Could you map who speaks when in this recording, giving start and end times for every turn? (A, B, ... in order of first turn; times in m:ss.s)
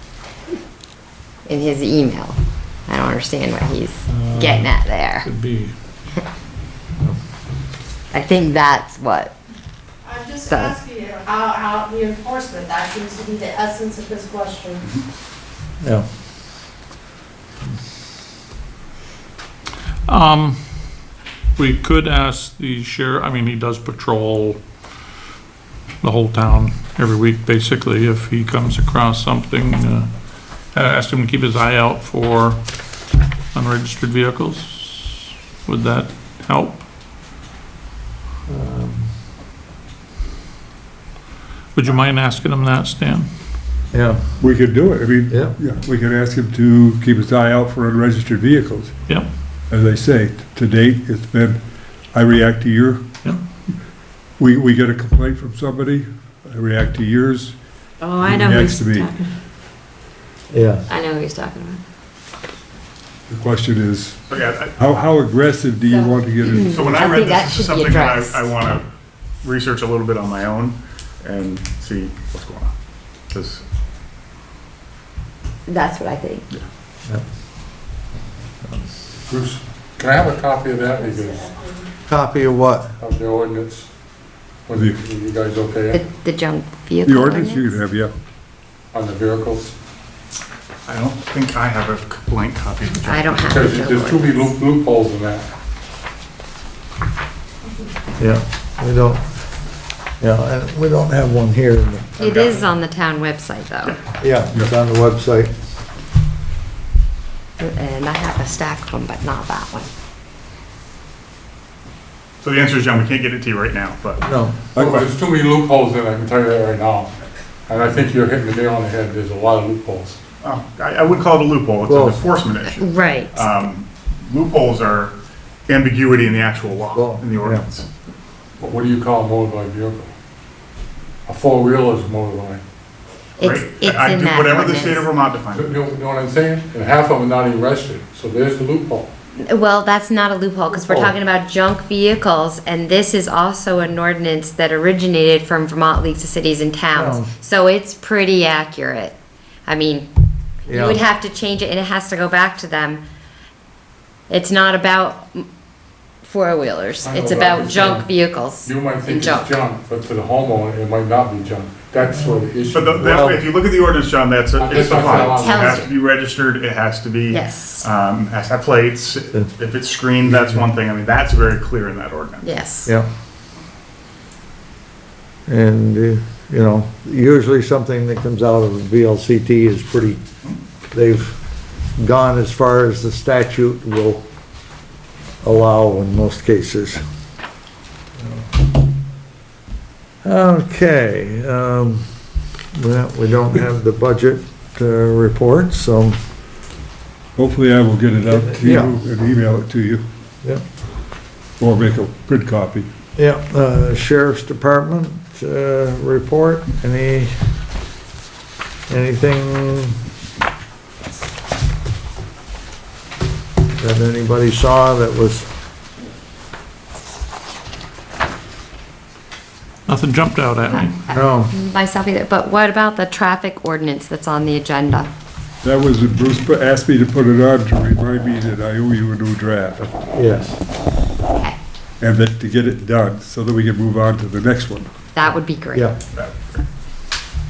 0:01.5-0:02.4 A
0:02.9-0:05.3 A
0:04.1-0:05.7 B
0:08.1-0:09.4 A
0:10.0-0:14.8 C
0:10.4-0:10.8 A
0:20.1-0:20.6 B
0:21.6-0:24.6 B
0:26.0-0:30.1 B
0:30.7-0:32.6 B
0:33.5-0:36.8 B
0:38.5-0:39.1 D
0:41.8-0:43.3 B
0:43.9-0:44.4 D
0:44.4-0:48.9 E
0:45.3-0:45.6 D
0:49.7-0:51.6 E
0:52.1-0:53.2 E
0:54.4-0:57.6 E
0:58.0-0:59.3 F
0:58.2-0:59.1 E
1:00.5-1:00.9 D
1:00.9-1:01.8 F
1:03.3-1:07.0 E
1:04.3-1:04.8 G
1:05.9-1:08.5 A
1:06.4-1:08.9 G
1:09.4-1:12.7 G
1:13.3-1:13.6 G
1:15.7-1:16.5 A
1:19.3-1:21.5 H
1:21.0-1:21.9 C
1:22.1-1:22.9 D
1:23.0-1:23.9 H
1:24.7-1:26.0 H
1:25.9-1:27.8 A
1:27.0-1:28.1 E
1:28.9-1:29.7 H
1:30.9-1:33.4 G
1:33.1-1:34.5 A
1:33.4-1:35.5 H
1:38.2-1:39.2 D
1:40.2-1:42.1 D
1:42.2-1:42.6 G
1:42.2-1:44.0 A
1:44.2-1:45.5 D
1:47.6-1:49.9 A
1:52.4-1:54.2 G
1:54.2-1:54.7 D
1:54.8-1:55.1 E
1:54.8-1:57.1 H
1:57.7-2:00.2 H
2:00.4-2:05.2 G
2:01.9-2:02.2 D
2:02.7-2:03.4 A
2:05.7-2:07.9 G
2:06.9-2:07.6 D
2:08.6-2:10.1 H
2:11.3-2:12.6 H
2:13.4-2:15.1 A
2:13.4-2:15.9 G
2:15.5-2:19.1 H
2:19.4-2:30.1 A
2:20.7-2:21.2 D
2:26.9-2:27.3 D
2:30.7-2:31.0 D
2:30.7-2:33.0 A
2:34.3-2:35.4 A
2:36.2-2:39.5 A
2:37.0-2:38.1 H
2:38.6-2:43.3 H
2:42.7-2:52.5 G
2:43.0-2:43.4 D
2:44.6-2:45.9 H
2:45.3-2:45.9 A
2:47.3-2:47.8 A
2:52.4-2:52.9 A
2:55.5-3:00.2 D
3:00.9-3:01.4 D
3:02.0-3:04.2 D
3:05.4-3:07.0 D
3:10.2-3:12.1 D
3:12.7-3:16.2 D
3:17.4-3:20.0 E
3:18.3-3:19.0 D
3:21.6-3:22.9 E
3:23.2-3:27.3 D
3:28.9-3:30.0 D
3:33.8-3:35.5 D
3:39.9-3:41.0 B
3:40.7-3:45.1 A
3:41.1-3:41.5 D
3:45.6-3:49.9 E
3:50.1-3:50.6 D
3:51.3-3:51.6 A
3:52.0-3:54.9 E
3:55.2-3:55.9 A
3:56.1-3:56.6 G